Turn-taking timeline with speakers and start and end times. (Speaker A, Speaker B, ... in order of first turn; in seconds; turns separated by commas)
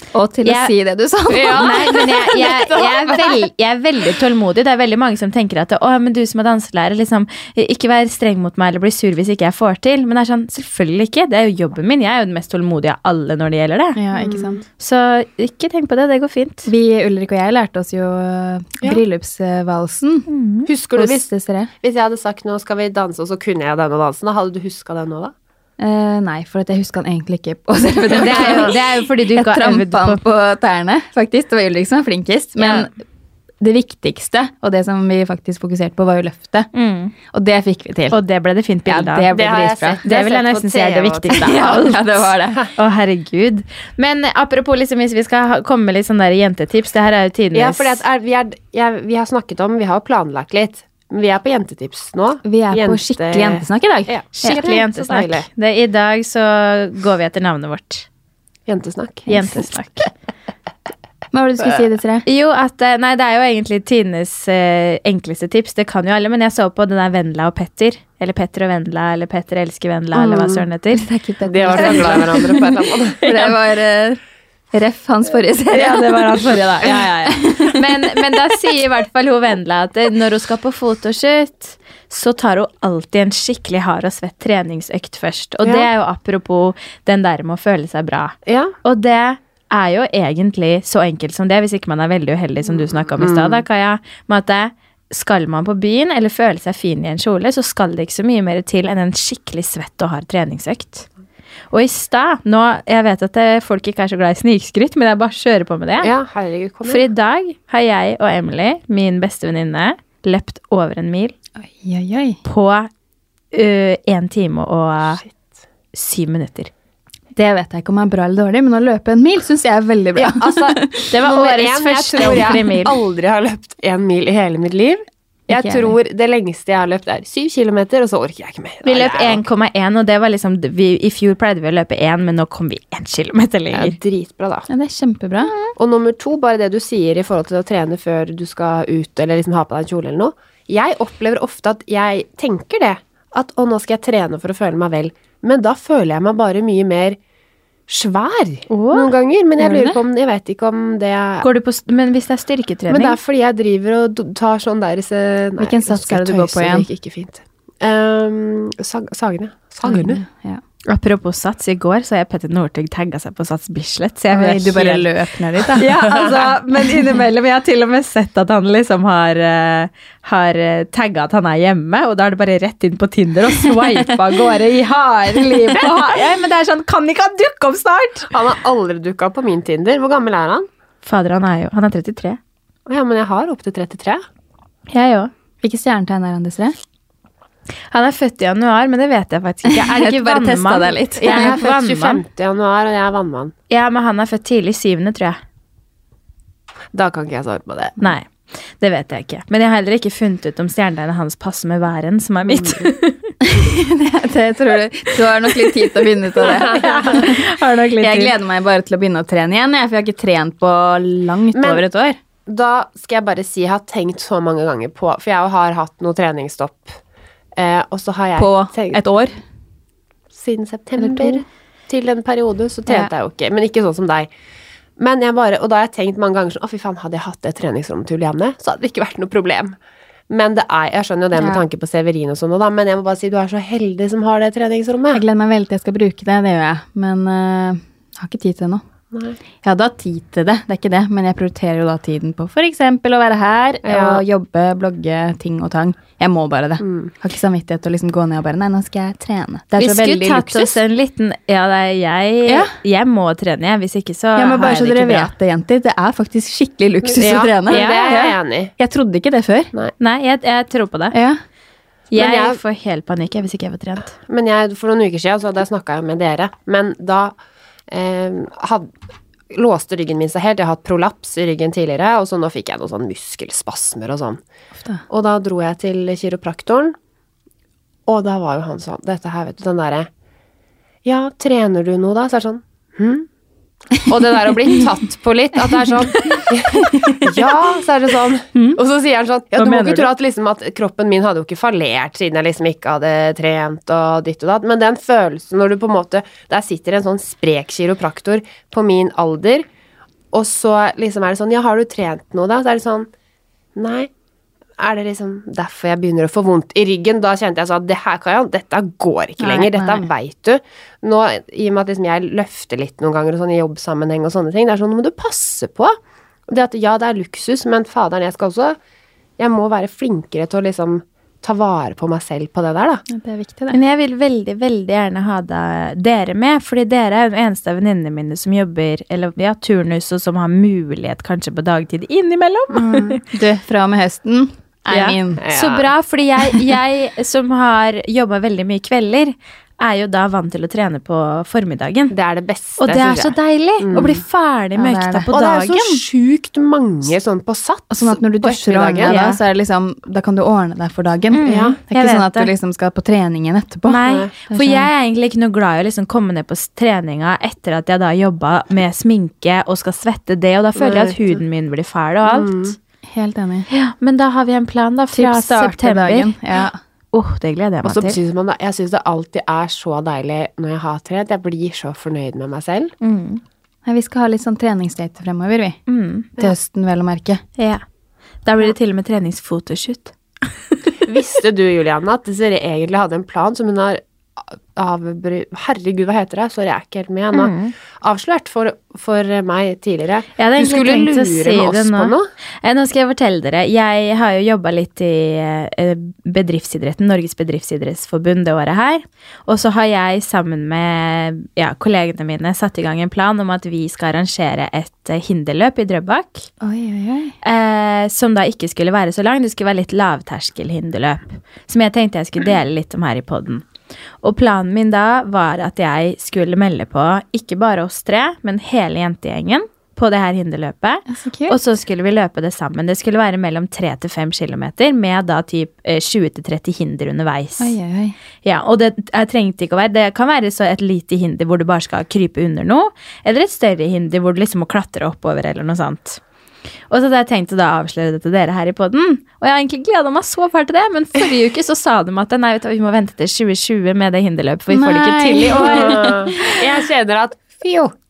Speaker A: 0.1-3.2, Speaker B: 0.4-0.7, Speaker C: 1.3-3.0, Speaker B: 1.4-14.0, Speaker A: 13.9-14.6, Speaker C: 14.1-14.6, Speaker B: 14.8-16.7, Speaker A: 16.6-20.3, Speaker B: 20.3-20.7, Speaker C: 20.7-21.3, Speaker A: 20.9-21.7, Speaker C: 21.8-25.3, Speaker A: 25.8-32.9, Speaker C: 28.1-28.8, Speaker B: 28.1-30.2, Speaker A: 33.6-36.7, Speaker B: 36.7-37.1, Speaker A: 37.3-38.2, Speaker B: 38.1-39.3, Speaker A: 38.9-40.0, Speaker C: 39.3-41.8, Speaker B: 40.0-48.0, Speaker A: 41.3-42.6, Speaker C: 47.5-55.5, Speaker A: 52.4-54.6, Speaker B: 54.3-58.0, Speaker C: 58.7-59.3, Speaker B: 59.3-60.1, Speaker A: 61.3-62.2, Speaker B: 62.2-71.0, Speaker C: 70.1-70.6, Speaker A: 70.9-74.2, Speaker C: 71.4-73.3, Speaker B: 71.7-72.7, Speaker B: 73.2-73.5, Speaker A: 74.7-77.8, Speaker B: 75.7-101.1, Speaker C: 85.6-85.9, Speaker C: 88.5-88.7, Speaker C: 93.1-93.6, Speaker B: 101.7-106.1, Speaker C: 106.0-107.1, Speaker B: 106.8-111.3, Speaker A: 111.6-112.4, Speaker B: 112.4-112.9, Speaker B: 113.5-115.2, Speaker B: 115.9-116.7, Speaker A: 117.3-121.1, Speaker C: 120.2-129.4, Speaker B: 121.1-123.0, Speaker A: 125.5-126.0, Speaker B: 128.8-134.0, Speaker C: 133.7-134.7, Speaker A: 134.7-135.5, Speaker C: 135.8-147.2, Speaker C: 147.9-151.4, Speaker B: 148.7-149.1, Speaker A: 149.6-150.0, Speaker B: 151.4-153.2, Speaker C: 152.9-160.2, Speaker A: 155.6-156.9, Speaker A: 159.8-160.6, Speaker B: 160.9-165.1, Speaker A: 164.3-165.9, Speaker B: 165.7-178.3, Speaker C: 166.1-166.4, Speaker C: 178.3-180.7, Speaker B: 181.0-182.4, Speaker C: 182.9-184.2, Speaker B: 184.9-185.3, Speaker A: 185.6-186.8, Speaker B: 187.9-192.2, Speaker A: 189.6-191.6, Speaker C: 191.2-193.5, Speaker B: 193.7-195.4, Speaker C: 196.9-198.0, Speaker B: 198.0-203.3, Speaker C: 202.5-202.9, Speaker A: 203.4-212.2, Speaker B: 206.4-208.3, Speaker C: 206.5-207.2, Speaker C: 211.5-211.8, Speaker C: 212.4-217.0, Speaker C: 217.6-219.0, Speaker A: 218.4-219.3, Speaker C: 220.3-224.3, Speaker A: 221.0-221.4, Speaker C: 225.0-229.8, Speaker C: 230.3-235.2, Speaker A: 231.3-231.6, Speaker A: 235.1-238.8, Speaker C: 239.1-239.4, Speaker A: 239.6-250.8, Speaker C: 243.8-244.2, Speaker C: 246.8-247.1, Speaker B: 249.8-255.3, Speaker A: 252.4-252.7, Speaker A: 254.3-259.7, Speaker C: 257.0-258.7, Speaker B: 257.7-258.1, Speaker B: 260.0-261.2, Speaker A: 261.1-261.4, Speaker B: 262.1-264.1, Speaker C: 262.1-262.6, Speaker C: 264.3-267.4, Speaker C: 267.9-268.9, Speaker C: 269.5-274.4, Speaker C: 275.1-276.9, Speaker C: 278.1-280.1, Speaker C: 281.0-283.3, Speaker C: 284.0-299.6, Speaker A: 286.2-287.5, Speaker B: 289.6-290.1, Speaker C: 300.3-303.1, Speaker C: 303.8-304.1, Speaker C: 304.8-315.9, Speaker A: 309.4-310.1, Speaker C: 316.5-318.8, Speaker C: 319.4-323.0, Speaker A: 323.1-323.8, Speaker B: 323.7-333.2, Speaker A: 332.7-335.4, Speaker B: 334.9-342.1, Speaker C: 335.4-335.9, Speaker C: 342.1-344.2, Speaker B: 342.8-346.0, Speaker A: 344.8-345.3, Speaker C: 345.3-349.2, Speaker A: 347.9-354.9, Speaker B: 349.1-349.4, Speaker B: 351.3-352.5, Speaker C: 351.4-351.8, Speaker B: 353.9-362.7, Speaker C: 354.0-354.3, Speaker C: 360.8-361.4, Speaker C: 362.2-362.8, Speaker A: 363.1-363.7, Speaker B: 363.7-366.3, Speaker A: 365.1-366.8, Speaker B: 367.1-368.2, Speaker C: 367.8-372.9, Speaker B: 373.0-373.4, Speaker A: 373.9-375.8, Speaker B: 375.9-376.3, Speaker A: 376.4-377.4, Speaker B: 377.6-377.8, Speaker B: 378.4-380.5, Speaker C: 381.0-392.3, Speaker B: 387.3-387.7, Speaker B: 390.4-406.5, Speaker A: 406.6-407.4, Speaker B: 407.4-413.6, Speaker B: 414.2-427.7, Speaker A: 421.1-421.6, Speaker A: 427.6-428.1, Speaker B: 428.4-436.2, Speaker B: 436.9-446.2, Speaker A: 444.7-446.6, Speaker C: 445.6-447.9